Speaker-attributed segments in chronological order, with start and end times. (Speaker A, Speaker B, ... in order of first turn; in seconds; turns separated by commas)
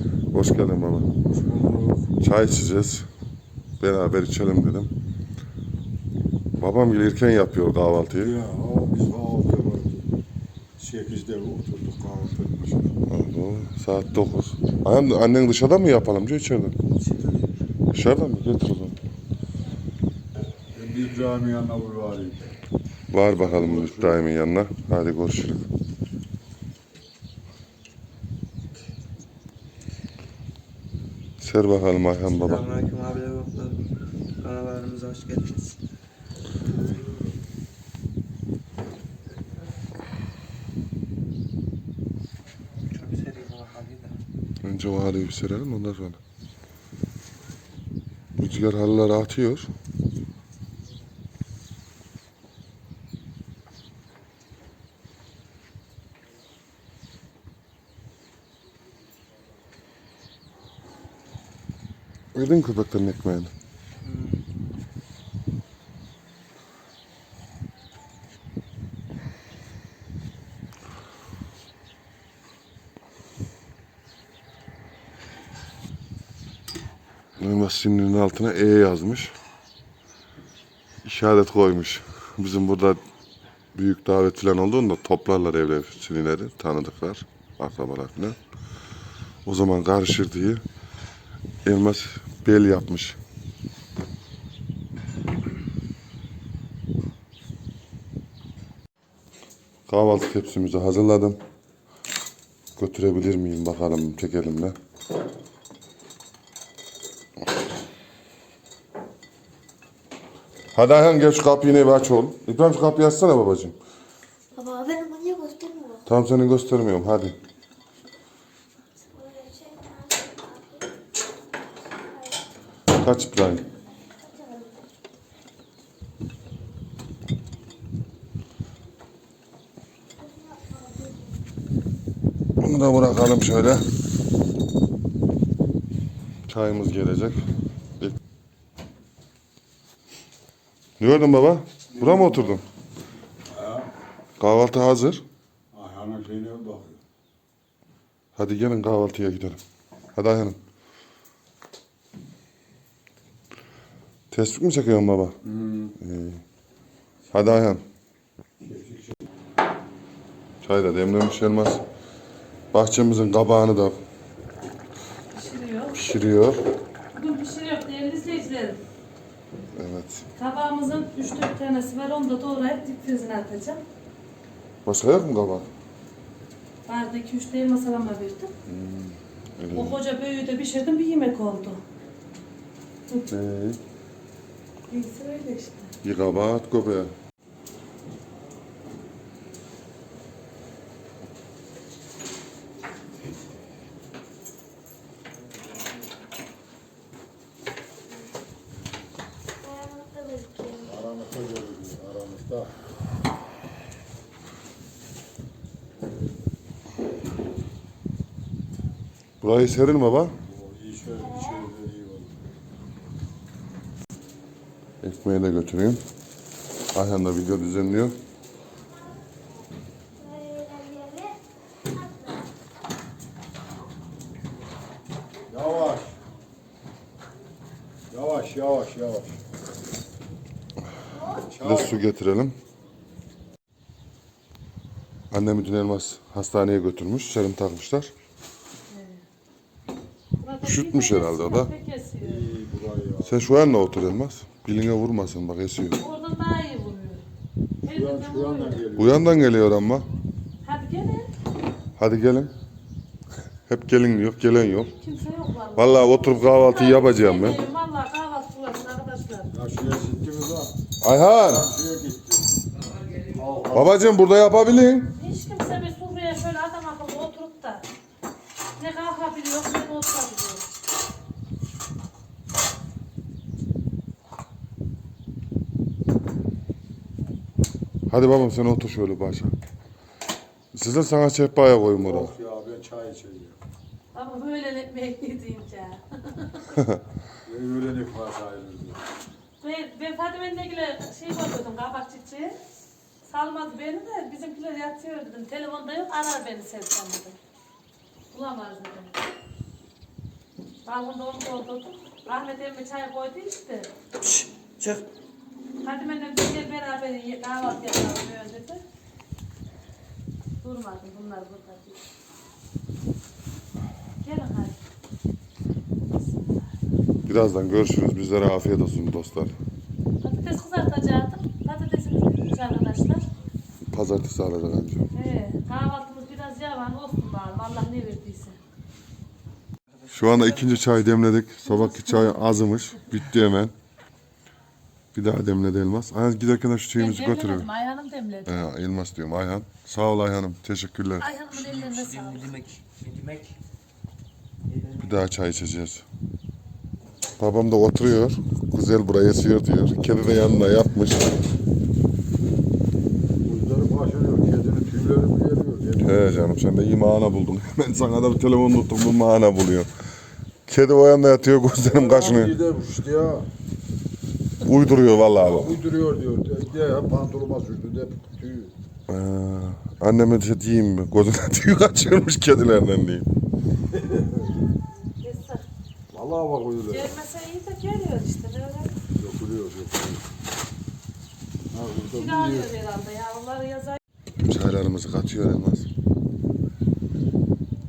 Speaker A: 0.3-1.1, Speaker B: 1.2-2.1, Speaker A: 2.2-3.1, Speaker A: 3.8-4.9, Speaker A: 6.6-8.4, Speaker B: 8.1-10.1, Speaker B: 10.8-12.8, Speaker A: 13.0-16.7, Speaker B: 17.0-17.4, Speaker A: 17.9-19.0, Speaker B: 20.7-22.4, Speaker A: 23.1-25.6, Speaker B: 23.4-24.2, Speaker A: 31.4-32.7, Speaker C: 32.5-33.8, Speaker C: 34.4-35.7, Speaker C: 42.9-44.1, Speaker D: 43.2-43.9, Speaker A: 44.6-46.2, Speaker A: 48.4-49.7, Speaker A: 62.3-63.5, Speaker A: 77.4-79.3, Speaker A: 81.0-83.0, Speaker A: 83.7-88.4, Speaker A: 89.4-90.6, Speaker A: 91.6-93.2, Speaker A: 99.9-101.4, Speaker A: 102.8-104.7, Speaker A: 110.7-113.8, Speaker D: 114.5-116.0, Speaker A: 116.0-117.3, Speaker D: 119.1-120.9, Speaker A: 122.9-123.6, Speaker D: 124.2-124.8, Speaker D: 130.2-131.3, Speaker A: 132.6-133.8, Speaker A: 136.5-137.4, Speaker A: 141.0-142.6, Speaker B: 141.9-142.6, Speaker B: 143.5-143.9, Speaker A: 144.4-145.2, Speaker B: 145.7-147.0, Speaker A: 148.3-149.6, Speaker A: 150.1-150.6, Speaker A: 154.3-155.3, Speaker B: 155.4-155.9, Speaker A: 156.0-156.4, Speaker A: 157.3-157.8, Speaker B: 158.6-159.2, Speaker A: 160.6-161.8, Speaker A: 162.7-164.0, Speaker E: 165.3-166.0, Speaker A: 165.9-166.6, Speaker E: 167.1-168.8, Speaker A: 169.7-170.2, Speaker E: 170.3-173.8, Speaker A: 174.8-175.7, Speaker E: 176.9-178.5, Speaker A: 178.7-180.0, Speaker E: 179.7-181.8, Speaker A: 183.3-183.8, Speaker E: 184.9-185.9, Speaker A: 186.0-187.1, Speaker D: 199.6-200.9, Speaker B: 200.8-202.7, Speaker A: 209.4-210.3, Speaker B: 210.4-212.4, Speaker A: 215.0-216.0, Speaker A: 216.9-218.2, Speaker D: 220.2-221.4, Speaker D: 221.9-222.3, Speaker B: 225.5-226.2, Speaker B: 228.1-229.4, Speaker B: 231.3-232.0, Speaker A: 231.6-232.6, Speaker A: 235.3-238.1, Speaker E: 238.9-239.2, Speaker E: 240.4-242.4, Speaker A: 240.6-241.7, Speaker B: 242.2-243.4, Speaker A: 243.2-246.0, Speaker E: 246.0-247.2, Speaker E: 247.8-248.8, Speaker B: 247.9-249.4, Speaker A: 249.0-250.1, Speaker E: 250.6-251.3, Speaker A: 252.0-252.5, Speaker A: 253.7-254.9, Speaker E: 254.9-259.5, Speaker A: 255.8-257.6, Speaker B: 259.5-260.7, Speaker A: 261.0-261.7, Speaker B: 261.4-262.5, Speaker B: 263.2-264.1, Speaker A: 263.7-265.1, Speaker E: 265.1-267.9, Speaker E: 268.8-270.7, Speaker A: 278.1-279.5, Speaker A: 280.7-282.3, Speaker B: 282.0-283.6, Speaker E: 284.1-286.8, Speaker B: 287.4-289.0, Speaker E: 289.6-292.6, Speaker E: 293.3-297.4, Speaker E: 298.3-299.1, Speaker E: 300.8-303.9, Speaker E: 305.8-308.8, Speaker E: 310.6-312.0, Speaker E: 314.2-314.8, Speaker E: 316.1-316.7, Speaker A: 317.2-319.5, Speaker E: 320.2-323.2, Speaker A: 323.9-325.1, Speaker E: 325.1-328.6, Speaker A: 330.1-333.7, Speaker E: 331.6-332.9, Speaker A: 335.1-337.7, Speaker E: 336.9-338.6, Speaker A: 338.4-341.3, Speaker E: 341.2-342.8, Speaker A: 344.9-346.0, Speaker A: 347.4-351.3, Speaker B: 353.4-356.4, Speaker A: 356.0-359.9, Speaker A: 360.7-362.5, Speaker B: 361.8-363.5, Speaker A: 364.6-365.8, Speaker B: 365.4-368.7, Speaker A: 369.1-373.3, Speaker B: 374.0-374.4, Speaker E: 375.2-375.6, Speaker B: 376.1-377.1, Speaker E: 376.9-378.9, Speaker B: 379.1-380.2, Speaker B: 381.7-382.7, Speaker E: 382.1-384.0, Speaker A: 384.4-385.9